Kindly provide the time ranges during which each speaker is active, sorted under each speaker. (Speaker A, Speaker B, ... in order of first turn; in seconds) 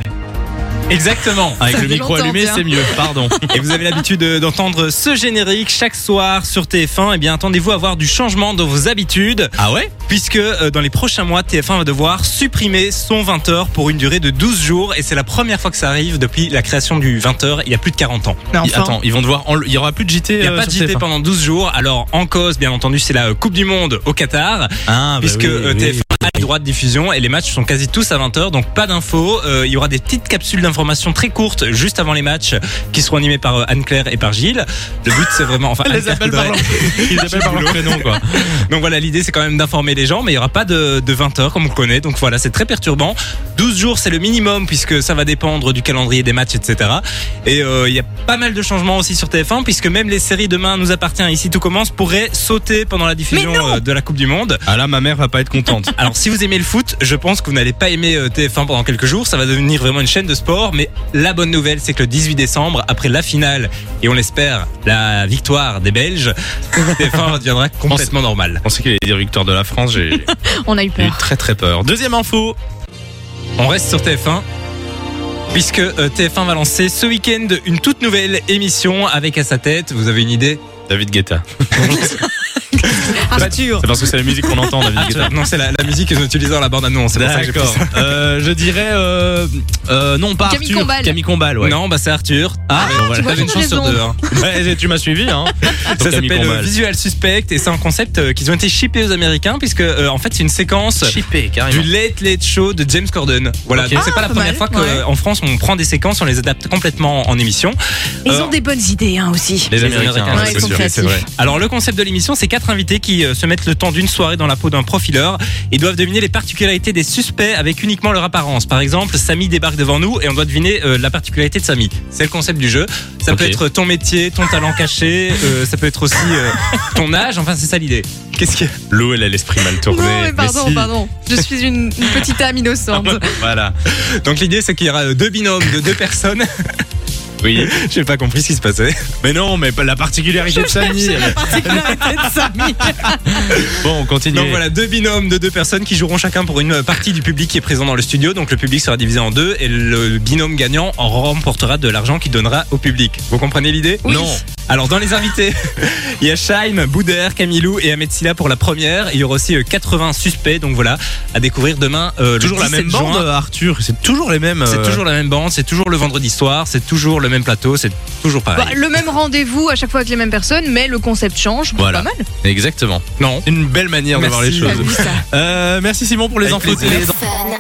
Speaker A: 0.9-1.7, 3.5-9.5, 10.1-18.5, 20.4-54.6, 56.0-68.6, 73.6-74.4, 75.5-80.6, 84.9-88.2, 91.6-94.2, 95.9-101.1, 101.7-108.5, 109.7-128.7, 133.8-136.4, 137.5-139.0, 143.4-143.8, 144.3-154.0, 154.7-163.3, 164.7-168.8, 173.2-173.5, 174.1-175.2, 176.4-177.1
Speaker B: 1.6-3.4, 9.6-9.9, 18.6-21.0, 24.9-26.5, 35.8-38.4, 54.7-55.9, 68.6-70.3, 71.0-72.5, 80.9-82.3, 82.8-85.3, 87.1-91.8, 92.7-93.6, 94.3-96.7, 101.0-101.9, 103.7-104.1, 109.7-111.2, 123.3-123.6, 128.9-130.9, 133.3-133.8, 137.4-137.7, 139.2-144.6, 154.0-154.4, 162.4-165.0, 171.8-177.2
Speaker C: 1.6-3.5, 18.5-18.9, 53.3-53.8, 70.1-71.2, 82.7-84.0, 90.4-91.2, 92.8-94.2, 103.9-105.0, 108.2-109.7, 110.3-111.2, 129.8-133.4, 140.4-143.4, 154.0-154.4, 168.6-172.2, 174.6-175.2